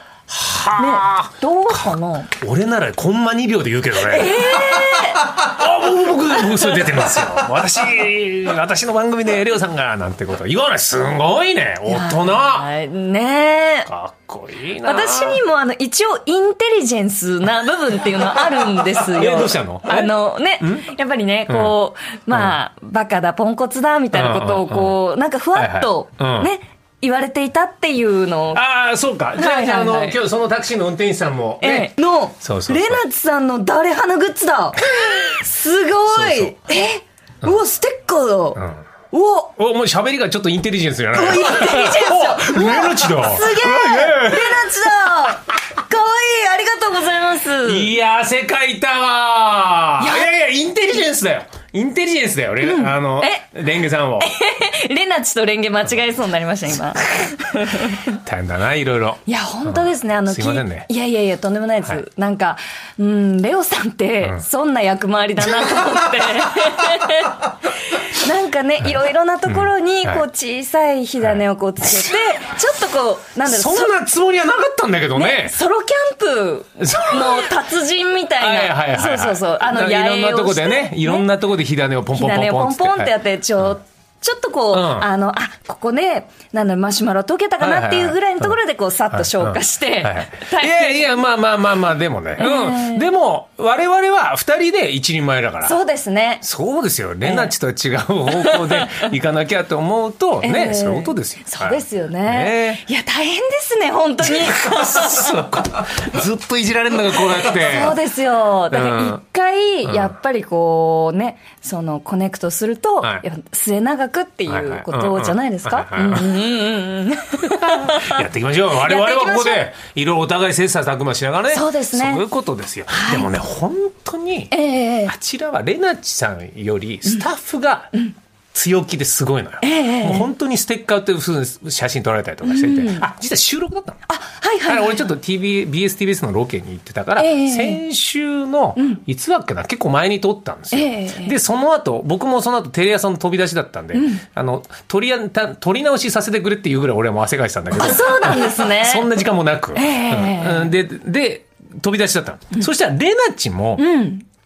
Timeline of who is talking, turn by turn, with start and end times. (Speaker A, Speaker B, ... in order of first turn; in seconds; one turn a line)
Speaker A: 0.3-1.8
Speaker B: 0.8-2.3
Speaker A: 2.4-12.7
Speaker B: 4.0-5.4
Speaker B: 11.9-13.9
Speaker A: 13.9-15.4
Speaker B: 14.8-28.6
Speaker A: 18.9-20.9
Speaker A: 21.5-21.8
Speaker A: 24.1-25.0
Speaker A: 25.6-26.5
Speaker A: 28.5-33.0
Speaker B: 29.4-30.2
Speaker B: 31.6-39.5
Speaker A: 36.1-36.5
Speaker A: 39.6-44.7
Speaker B: 41.1-47.9
Speaker A: 47.6-54.3
Speaker B: 50.0-50.3
Speaker B: 52.6-53.5
Speaker B: 54.2-58.2
Speaker A: 58.1-60.9
Speaker B: 59.3-74.0
Speaker A: 69.5-70.2
Speaker A: 73.4-75.5
Speaker B: 75.2-81.3
Speaker A: 76.8-77.5
Speaker A: 78.4-83.1
Speaker B: 82.1-91.2
Speaker A: 84.7-85.1
Speaker A: 87.6-88.6
Speaker A: 89.1-95.8
Speaker B: 92.4-93.1
Speaker B: 95.6-96.4
Speaker A: 96.4-102.8
Speaker B: 97.2-97.5
Speaker B: 98.3-99.1
Speaker B: 100.4-105.5
Speaker A: 104.2-108.0
Speaker B: 107.4-118.2
Speaker A: 108.7-109.2
Speaker A: 109.8-110.1
Speaker A: 114.5-116.4
Speaker A: 117.6-124.5
Speaker B: 118.8-119.7
Speaker B: 121.5-122.2
Speaker B: 122.9-123.3
Speaker B: 124.5-125.1
Speaker A: 125.1-127.9
Speaker A: 128.5-134.0
Speaker B: 129.6-130.3
Speaker B: 132.4-133.1
Speaker B: 134.1-135.1
Speaker A: 134.7-153.9
Speaker B: 137.2-137.8
Speaker B: 140.7-141.4
Speaker B: 143.9-144.2
Speaker B: 147.8-149.1
Speaker B: 149.8-150.7
Speaker B: 153.8-154.2